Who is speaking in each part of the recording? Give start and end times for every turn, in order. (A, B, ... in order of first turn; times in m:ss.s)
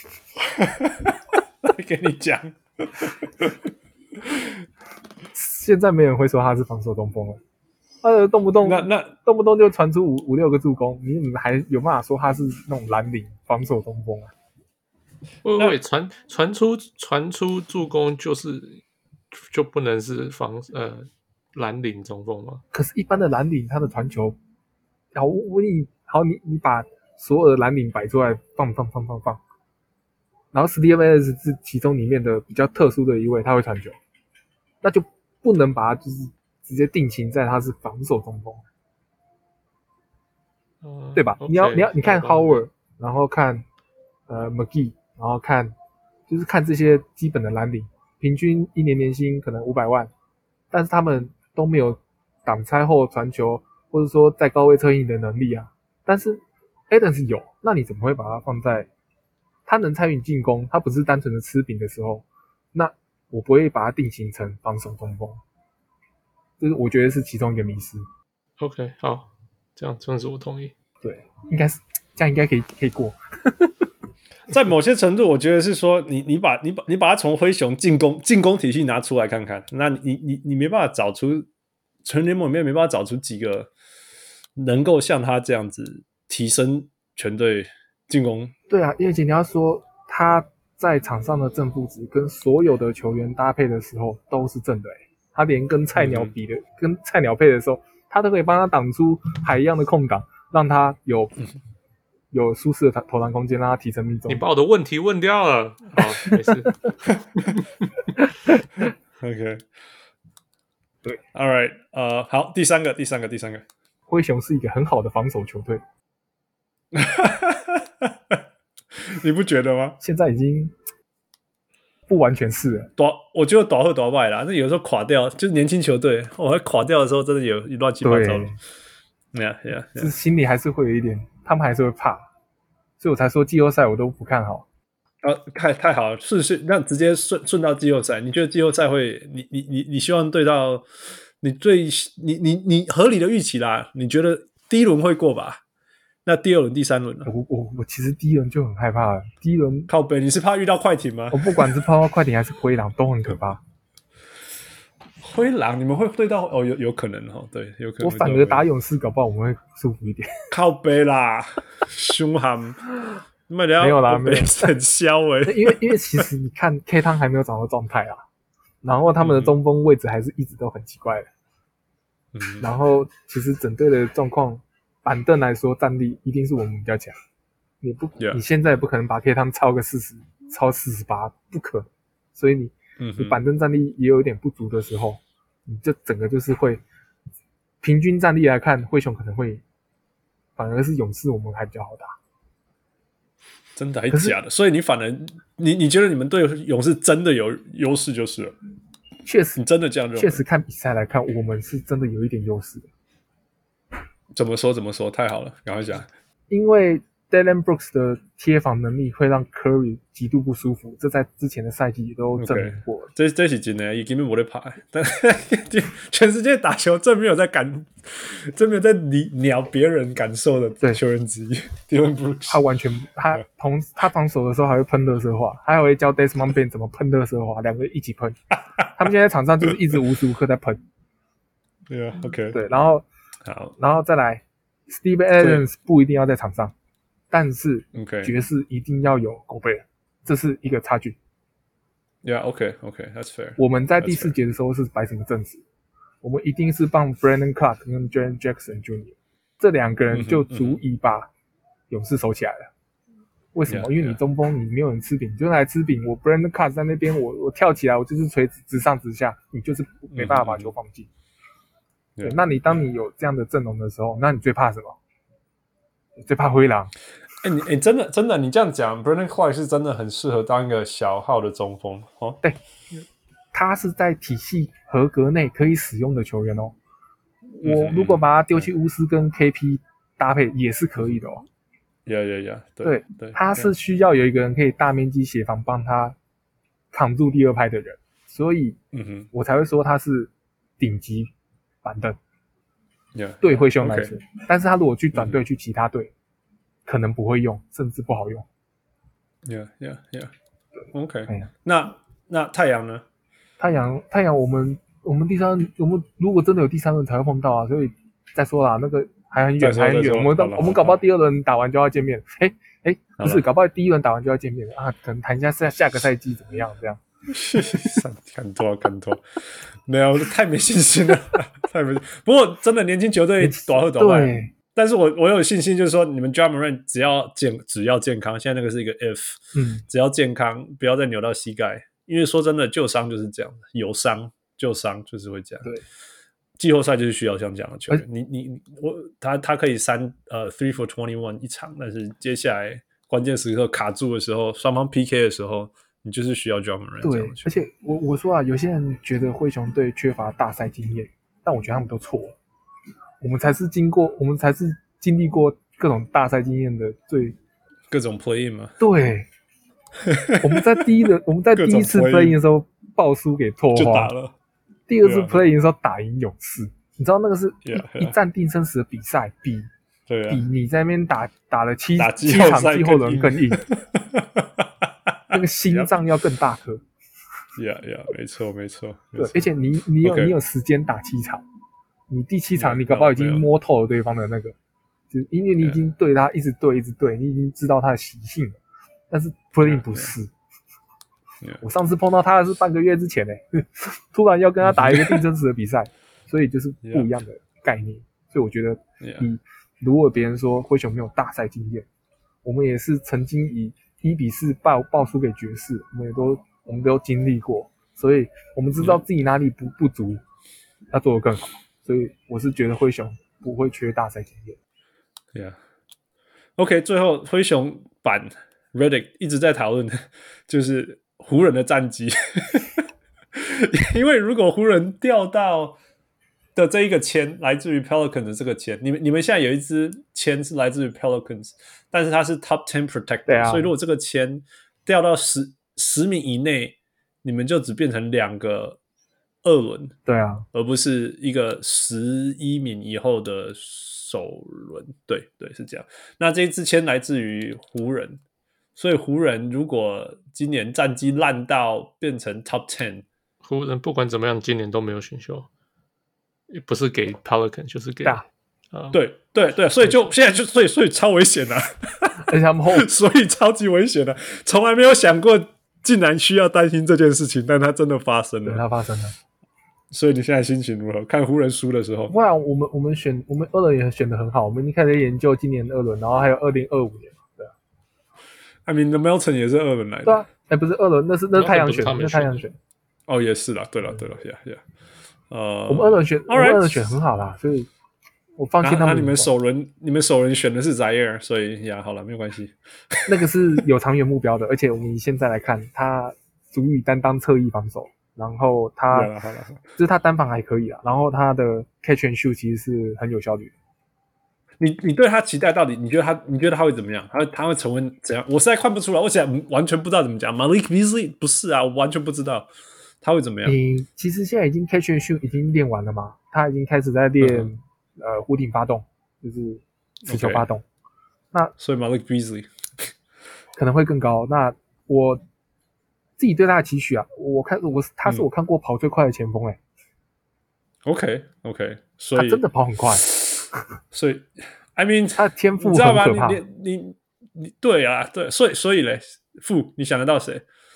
0:00.4-0:03.6 A
0:04.2-0:04.5 A
0:05.3-0:07.4 B
0:08.0-0:14.3 B
0:08.6-0:09.1 A
0:15.4-0:18.8 C
0:19.3-0:22.6 C
0:22.7-0:24.4 B
0:25.1-0:29.4 B
0:30.5-0:34.0 B
0:34.8-0:38.6 B
0:40.8-0:42.6 C
0:41.1-0:43.6 B
0:44.3-0:45.7 B
0:46.3-0:50.1 B
0:50.7-0:58.9 B
0:59.6-1:05.4 B
1:06.6-1:08.0 B
1:08.6-1:10.7 C
1:11.0-1:13.9 B
1:14.5-1:21.5 A
1:22.0-1:23.7 A
1:24.6-1:28.5 A
1:28.7-1:41.4 B
1:36.0-1:36.3 A
1:42.3-1:44.4 B
1:44.3-1:46.9 C
1:47.1-1:47.5 A
1:49.2-1:49.6 A
1:51.3-1:53.6 A
1:54.1-1:55.8 B
1:56.9-1:58.4 A
1:58.9-2:00.0 A
2:00.0-2:00.7 B
2:02.1-2:02.9 B
2:03.0-2:08.6 A
2:08.0-2:08.6 B
2:09.3-2:10.1 A
2:10.0-2:12.2 B
2:13.0-2:14.6 B
2:15.2-2:20.8 A
2:21.4-2:25.6 A
2:26.2-2:27.3 A
2:27.2-2:29.9 B
2:29.9-2:31.7 A
2:31.3-2:33.6 B
2:35.2-2:38.6 A
2:38.0-2:40.4 B
2:40.5-2:42.9 A
2:43.5-2:46.2 A
2:43.8-2:44.7 B
2:45.4-2:48.2 B
2:48.8-2:51.3 B
2:49.2-2:49.5 A
2:52.3-2:52.7 A
2:52.6-2:57.1 B
2:57.8-3:06.8 B
3:03.0-3:03.4 A
3:07.8-3:09.6 B
3:10.6-3:12.1 B
3:13.8-3:18.5 A
3:14.1-3:14.4 B
3:19.2-3:19.6 B
3:19.6-3:20.4 A
3:20.2-3:22.9 B
3:24.3-3:26.1 A
3:26.5-3:33.1 B
3:32.4-3:42.6 A
3:42.5-3:48.4 B
3:48.9-3:50.8 B
3:51.9-3:52.6 A
3:52.5-3:53.1 B
3:53.4-3:53.7 A
3:53.8-3:56.7 B
3:55.4-3:55.6 A
3:57.3-4:01.2 B
3:57.9-3:58.3 A
4:02.2-4:04.4 A
4:03.6-4:05.6 B
4:06.2-4:11.3 B
4:10.1-4:10.8 A
4:11.9-4:12.7 B
4:13.5-4:21.1 B
4:13.7-4:14.2 A
4:20.1-4:20.7 A
4:22.2-4:25.0 B
4:26.2-4:26.9 B
4:27.4-4:32.4 A
4:33.5-4:36.8 B
4:37.6-4:41.4 B
4:37.6-4:38.2 A
4:42.0-4:43.7 A
4:42.8-4:46.2 B
4:46.9-4:48.8 B
4:48.9-4:49.3 A
4:49.3-4:51.3 B
4:51.8-4:52.2 B
4:53.1-4:54.1 A
4:53.4-4:56.1 B
4:56.8-4:58.4 B
4:59.4-5:00.3 A
5:00.9-5:03.0 A
5:03.6-5:17.0 B
5:09.6-5:11.0 A
5:17.3-5:19.2 A
5:17.5-5:18.0 B
5:19.8-5:35.7 A
5:23.4-5:24.5 B
5:29.5-5:29.8 B
5:36.6-5:47.5 A
5:47.0-5:52.4 B
5:53.2-5:57.4 B
5:57.9-5:58.8 A
5:58.8-5:59.3 B
6:00.0-6:00.9 A
6:00.4-6:04.1 B
6:01.5-6:02.4 A
6:03.7-6:04.3 A
6:04.9-6:09.7 B
6:05.0-6:05.4 A
6:07.6-6:08.2 A
6:10.1-6:10.4 A
6:10.3-6:13.6 B
6:12.0-6:15.9 A
6:15.3-6:16.8 B
6:17.6-6:19.4 A
6:19.2-6:21.4 B
6:20.0-6:20.3 A
6:22.1-6:24.6 B
6:22.6-6:23.4 A
6:25.1-6:28.6 B
6:29.1-6:30.3 B
6:29.6-6:30.1 A
6:31.6-6:41.9 B
6:34.6-6:35.2 A
6:36.8-6:37.1 A
6:39.0-6:39.3 A
6:42.4-6:50.2 B
6:50.9-6:54.6 B
6:56.6-7:02.8 A
7:03.3-7:05.8 A
7:06.5-7:18.8 A
7:13.3-7:13.7 B
7:19.4-7:20.0 A
7:20.0-7:20.4 B
7:20.5-7:28.2 A
7:28.8-7:33.0 A
7:33.4-7:35.5 C
7:36.5-7:38.2 C
7:38.9-7:48.6 A
7:42.2-7:42.9 B
7:48.4-7:49.1 B
7:49.9-7:52.1 A
7:52.1-7:57.5 B
7:58.6-8:00.2 A
8:00.0-8:02.6 B
8:01.3-8:02.4 C
8:03.1-8:04.6 A
8:05.3-8:06.9 A
8:05.7-8:07.7 B
8:08.4-8:09.3 B
8:08.6-8:13.1 A
8:13.1-8:19.1 B
8:18.9-8:19.6 A
8:19.8-8:23.5 B
8:24.6-8:32.5 A
8:33.0-8:33.6 A
8:33.4-8:40.6 B
8:37.2-8:37.5 A
8:40.0-8:40.5 A
8:41.6-8:42.9 A
8:43.6-8:45.2 B
8:46.2-8:49.6 B
8:50.8-8:52.4 A
8:52.2-8:53.1 B
8:53.0-9:00.4 A
8:55.2-8:56.4 B